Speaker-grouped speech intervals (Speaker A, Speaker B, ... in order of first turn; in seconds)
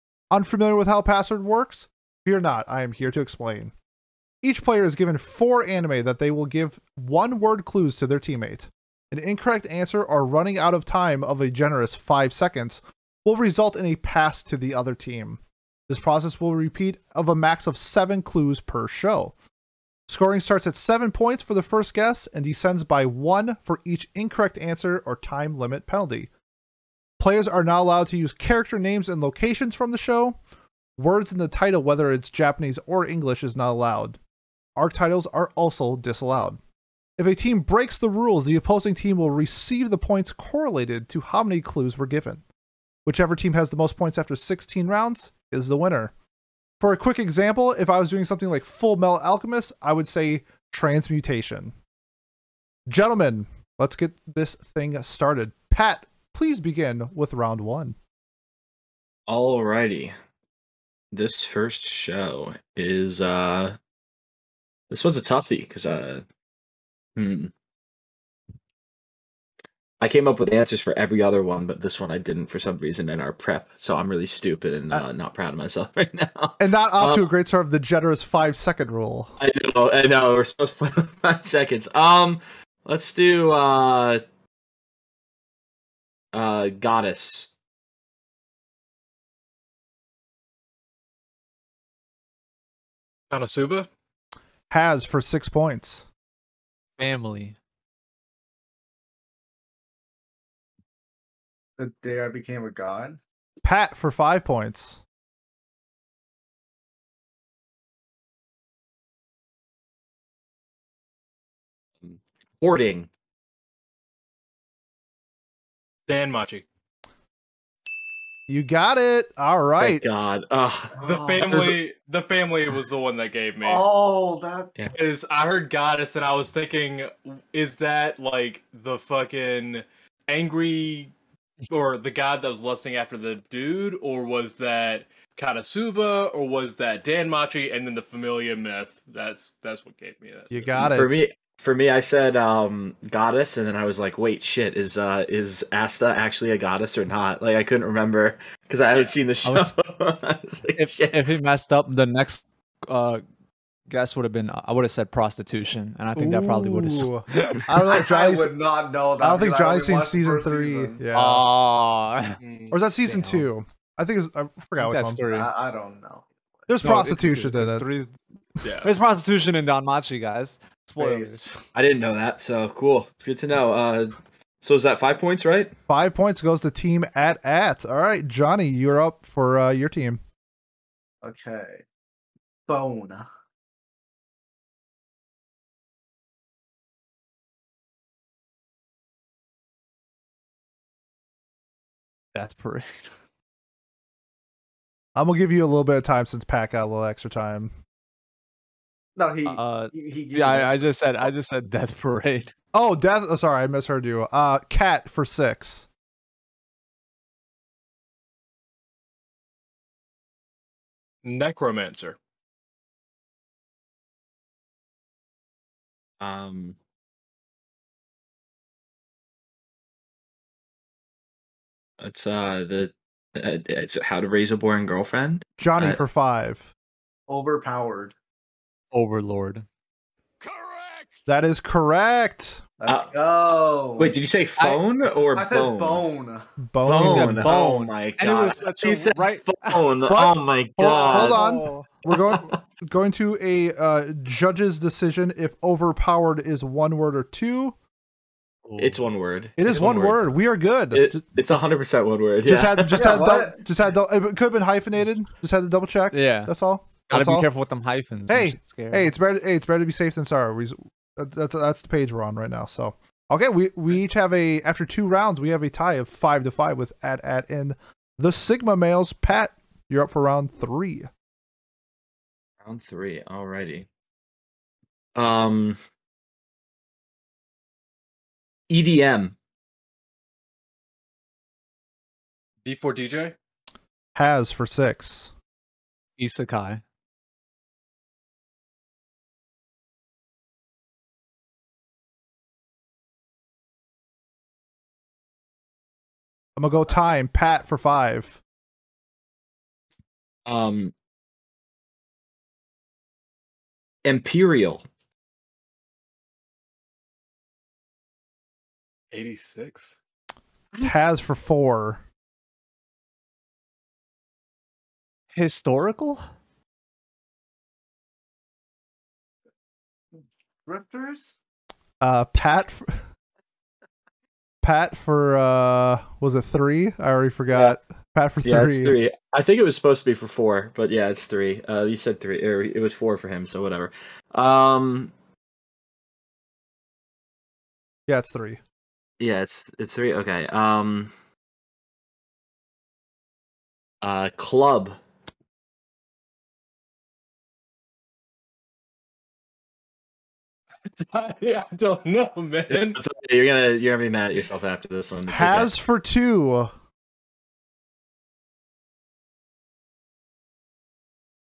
Speaker A: 0.3-3.7, 4.4-19.3, 20.1-26.3, 27.2-30.4, 31.0-34.2, 34.8-36.6, 37.2-42.4, 43.0-46.1, 46.8-51.8, 52.9-58.0, 76.6-79.3, 94.7-96.1, 103.6-105.0, 118.5-120.0, 140.5-141.2, 156.2-158.5, 159.2-161.5, 162.7-165.3, 166.7-167.9, 175.9-180.2, 195.2-197.7, 202.7-205.9, 225.6-226.7, 231.3-232.6, 236.6-237.5, 240.1-247.8, 249.6-251.6, 252.4-257.5, 258.3-271.1, 284.1-285.3, 296.6-298.4, 310.8-312.0, 322.0-323.0, 324.6-329.0, 338.1-338.6, 355.3-356.7
Speaker B: 59.3-60.1, 61.1-63.8, 64.9-66.2, 67.2-67.5, 70.0-77.3, 79.4-84.2, 86.3-87.5, 112.0-113.1, 119.8-121.8, 140.8-151.3, 171.7-175.7, 216.2-216.8, 222.0-226.0, 234.0-236.1, 236.8-241.4, 242.3-242.6, 248.8-250.2, 250.9-253.2, 272.6-273.9, 275.1-275.8, 278.7-279.4, 300.5-300.9, 304.0-304.8, 328.4-335.1, 339.2-341.1, 344.0-345.0, 352.7-355.7
Speaker C: 93.3-93.9, 116.1-116.7, 121.0-123.9, 124.9-131.1, 131.7-140.8, 162.4-162.8, 168.6-168.9, 211.2-212.2, 282.6-283.4, 309.1-310.0, 351.0-353.0
Speaker D: 97.0-97.6, 149.4-149.7, 150.8-153.2, 153.9-157.7, 161.1-162.4, 163.1-163.5, 164.8-165.5, 166.8-168.1, 168.8-171.6, 192.3-193.1, 199.5-202.5, 228.9-229.7, 237.0-239.8, 240.8-241.9, 248.7-249.0, 256.1-256.5, 257.1-259.1, 286.2-286.8, 315.4-316.2
Speaker E: 101.8-103.2, 121.0-121.5, 123.6-124.8, 157.9-161.0, 165.3-166.3, 171.0-171.4, 181.2-181.8, 182.7-183.3, 199.2-200.8, 227.3-228.1, 232.8-236.5, 252.9-253.6, 320.7-321.4